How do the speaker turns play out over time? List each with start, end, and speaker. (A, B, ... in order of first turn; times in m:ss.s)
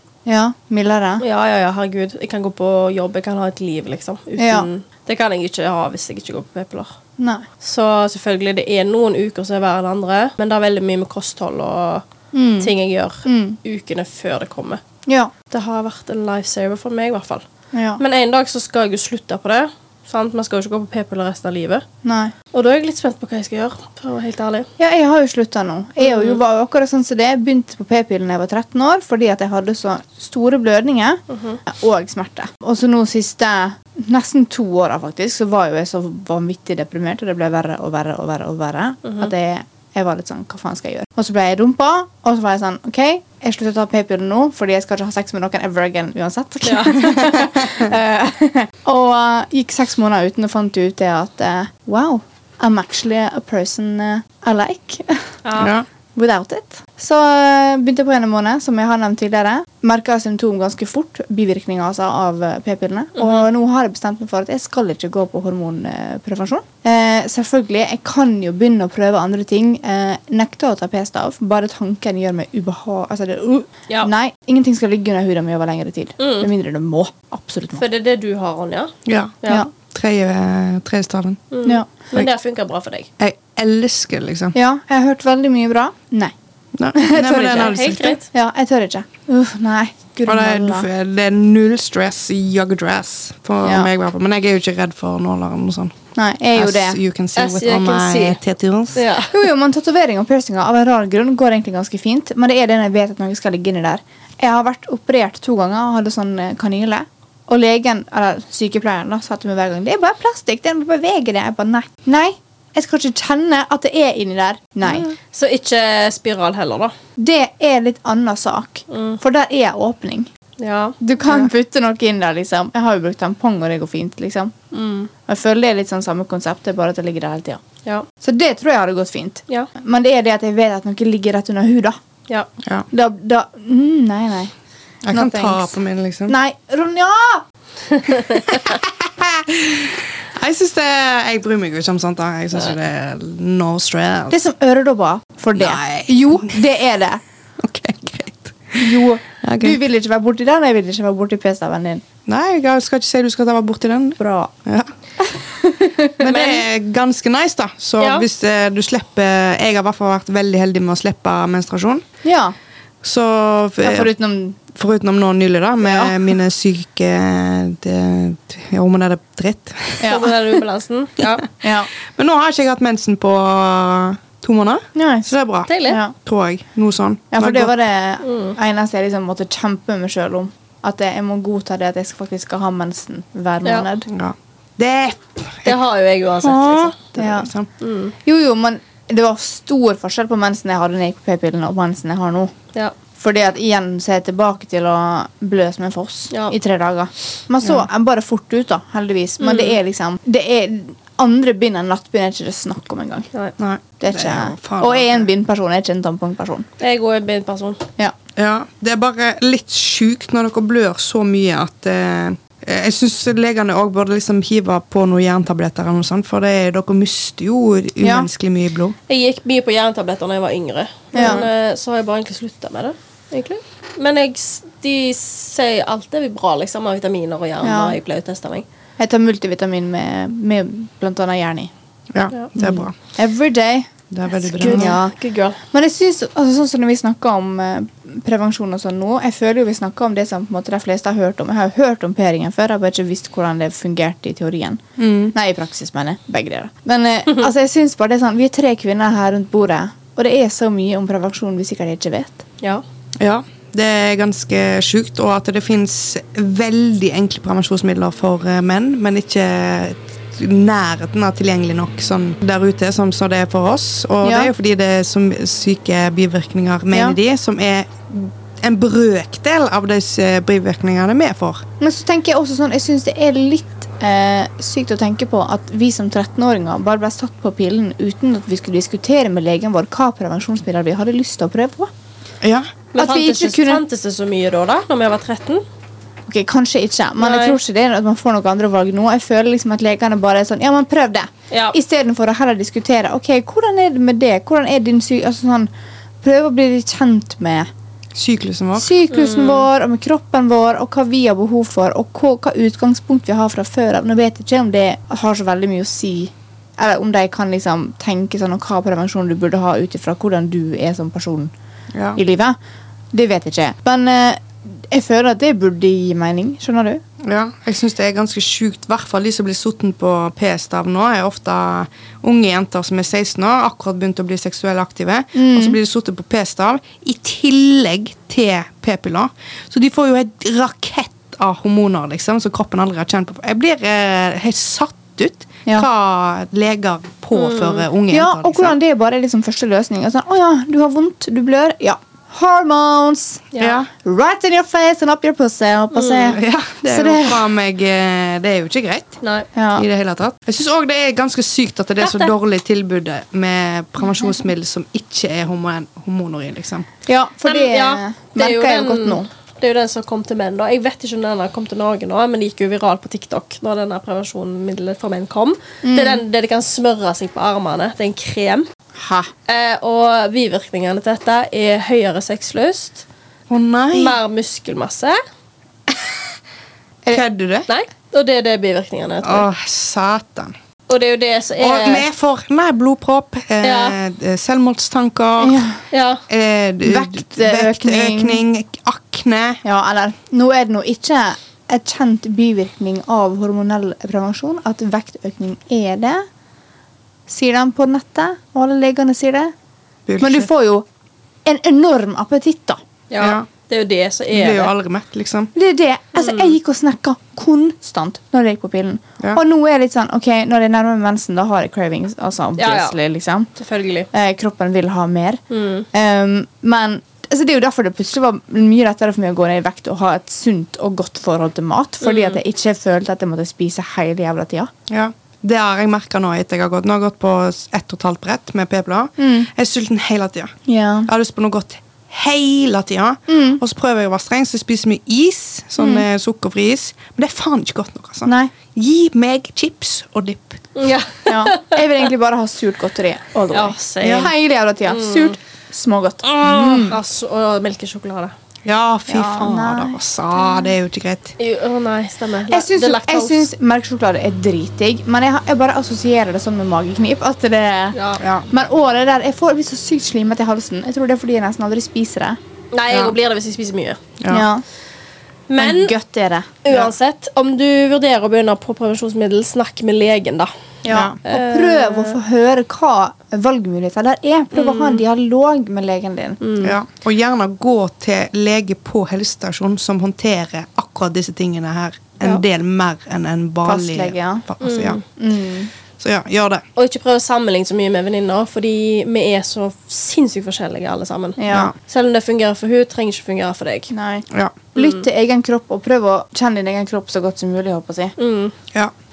0:00.2-0:01.2 A
0:01.2-0:06.9 B
0:04.4-0:04.7 A
0:07.2-0:07.4 A
0:07.6-0:12.0 B
0:12.3-0:12.7 A
0:12.6-0:14.8 B
0:13.2-0:13.6 A
0:15.1-0:15.3 A
0:15.5-0:17.4 B
0:17.7-0:18.0 A
0:18.0-0:21.8 B
0:22.0-0:22.3 A
0:22.5-0:24.7 B
0:24.8-0:55.3 A
0:26.0-0:26.4 B
0:31.3-0:31.6 B
0:46.6-0:47.4 B
0:55.4-0:55.7 B
0:55.6-0:55.9 C
0:56.1-1:17.8 A
1:03.2-1:03.4 B
1:16.2-1:16.5 B
1:17.8-1:19.7 B
1:19.0-1:19.4 C
1:19.9-1:21.4 C
1:21.5-1:23.1 B
1:23.2-1:24.5 C
1:24.5-1:26.3 A
1:26.8-1:28.2 C
1:27.0-1:27.8 A
1:27.5-1:28.2 B
1:28.3-1:30.9 A
1:30.2-1:36.0 C
1:33.6-1:33.9 A
1:36.1-1:37.0 A
1:36.5-1:39.0 C
1:37.4-1:38.4 B
1:39.0-1:39.3 B
1:39.3-1:55.1 A
1:54.8-1:56.9 B
1:57.2-2:00.3 A
1:58.9-1:59.2 B
2:00.6-2:01.0 B
2:01.0-2:04.5 A
2:04.7-2:05.1 B
2:05.3-2:07.6 A
2:08.2-2:12.0 A
2:12.9-2:14.5 A
2:15.0-2:16.3 C
2:15.1-2:15.8 A
2:16.3-2:17.4 A
2:18.5-2:24.4 C
2:24.3-2:27.2 A
2:25.6-2:26.6 C
2:27.6-2:29.8 C
2:28.8-2:32.0 A
2:32.2-2:34.9 C
2:34.2-2:34.5 A
2:35.2-2:36.2 A
2:36.2-2:42.0 C
2:36.3-2:36.6 B
2:38.0-2:38.2 B
2:42.2-2:42.5 A
2:43.0-2:44.1 C
2:43.8-2:44.6 A
2:44.7-2:50.2 C
2:45.8-2:46.3 A
2:50.0-2:50.3 A
2:50.0-2:51.5 B
2:51.6-2:51.9 A
2:52.1-2:57.7 C
2:55.0-2:55.3 A
2:55.7-2:56.0 B
2:55.8-2:56.1 A
2:57.3-3:04.1 A
2:58.2-2:58.6 B
3:04.1-3:05.8 C
3:05.6-3:07.0 B
3:06.4-3:07.7 C
3:07.2-3:07.5 A
3:07.8-3:08.1 B
3:08.2-3:12.5 A
3:13.2-3:23.3 A
3:19.4-3:19.8 B
3:23.6-3:25.3 C
3:24.0-3:26.7 A
3:26.8-3:27.8 B
3:28.4-3:39.0 C
3:38.0-3:38.3 A
3:39.1-3:48.6 B
3:41.1-3:41.5 A
3:47.6-3:48.0 A
3:49.0-3:51.7 A
3:52.1-3:52.9 C
3:52.6-3:53.9 A
3:54.1-3:55.0 C
3:54.5-3:55.6 B
3:54.5-3:55.2 A
3:55.7-4:04.8 A
4:05.0-4:05.3 C
4:05.3-4:12.4 A
4:13.2-4:31.6 C
4:24.2-4:24.5 A
4:26.9-4:27.2 A
4:31.8-4:41.9 A
4:42.4-4:42.7 C
4:42.9-4:45.6 B
4:43.0-4:43.8 A
4:46.3-4:55.7 A
4:47.2-4:47.6 B
4:51.5-4:51.8 B
4:56.2-4:57.7 A
4:58.1-4:58.9 C
4:58.8-5:11.5 A
4:59.1-4:59.7 B
5:11.9-5:12.2 C
5:12.1-5:12.6 A
5:13.1-5:17.0 A
5:17.2-5:38.8 C
5:25.3-5:25.8 A
5:37.3-5:37.9 B
5:38.1-5:47.4 A
5:43.5-5:43.8 B
5:43.6-5:43.9 C
5:45.9-5:46.4 B
5:46.3-5:49.2 C
5:49.2-5:49.5 B
5:49.5-5:49.8 A
5:49.8-5:56.9 C
5:52.0-5:52.3 B
5:57.1-5:59.3 A
5:57.5-6:08.7 B
6:05.8-6:06.2 A
6:09.0-6:09.3 A
6:09.5-6:13.0 B
6:13.5-6:14.2 C
6:13.9-6:15.2 B
6:15.9-6:16.1 C
6:17.1-6:17.7 C
6:17.7-6:19.5 B
6:19.2-6:20.5 C
6:20.9-6:22.1 B
6:21.6-6:25.6 C
6:23.6-6:24.0 B
6:25.4-6:25.8 A
6:25.9-6:26.2 B
6:26.3-6:29.6 C
6:26.8-6:28.4 A
6:29.6-6:36.2 A
6:37.3-6:39.5 A
6:40.0-6:40.5 C
6:40.2-6:40.8 A
6:41.4-6:42.8 A
6:43.1-6:44.7 B
6:43.2-6:43.5 C
6:44.3-6:45.5 C
6:45.5-6:53.5 A
6:46.2-6:46.5 B
6:52.6-6:53.0 B
6:53.6-6:54.1 B
6:54.1-6:55.4 A
6:55.5-6:55.9 B
6:55.9-7:04.7 A
7:02.0-7:02.4 B
7:04.9-7:10.5 C
7:09.2-7:09.5 A
7:10.7-7:11.1 A
7:11.1-7:20.6 C
7:13.3-7:13.6 A
7:15.8-7:16.0 A
7:18.2-7:18.5 A
7:20.8-7:21.8 B
7:21.3-7:27.0 A
7:23.5-7:24.3 B
7:24.0-7:24.3 C
7:24.8-7:25.3 B
7:26.4-7:28.3 B
7:28.6-7:31.3 C
7:29.1-7:30.0 A
7:31.4-7:33.5 B
7:32.5-7:38.0 A
7:37.9-7:38.2 B
7:38.2-7:38.5 C
7:38.5-7:42.4 A
7:42.7-7:44.0 B
7:42.9-7:43.1 C
7:44.2-7:44.5 C
7:44.3-7:44.6 A
7:45.5-7:45.9 B
7:45.6-7:46.6 A
7:46.6-7:50.5 B
7:50.8-7:56.4 A
7:50.9-7:51.2 C
7:51.2-7:52.2 B
7:54.5-7:55.0 B
7:56.4-7:56.8 B
7:56.6-8:05.0 C
8:03.6-8:04.4 A
8:04.6-8:05.0 B
8:05.2-8:05.7 A
8:06.0-8:06.6 C
8:06.8-8:13.9 B
8:11.4-8:11.7 A
8:13.9-8:18.1 A
8:14.3-8:14.6 C
8:18.2-8:18.5 B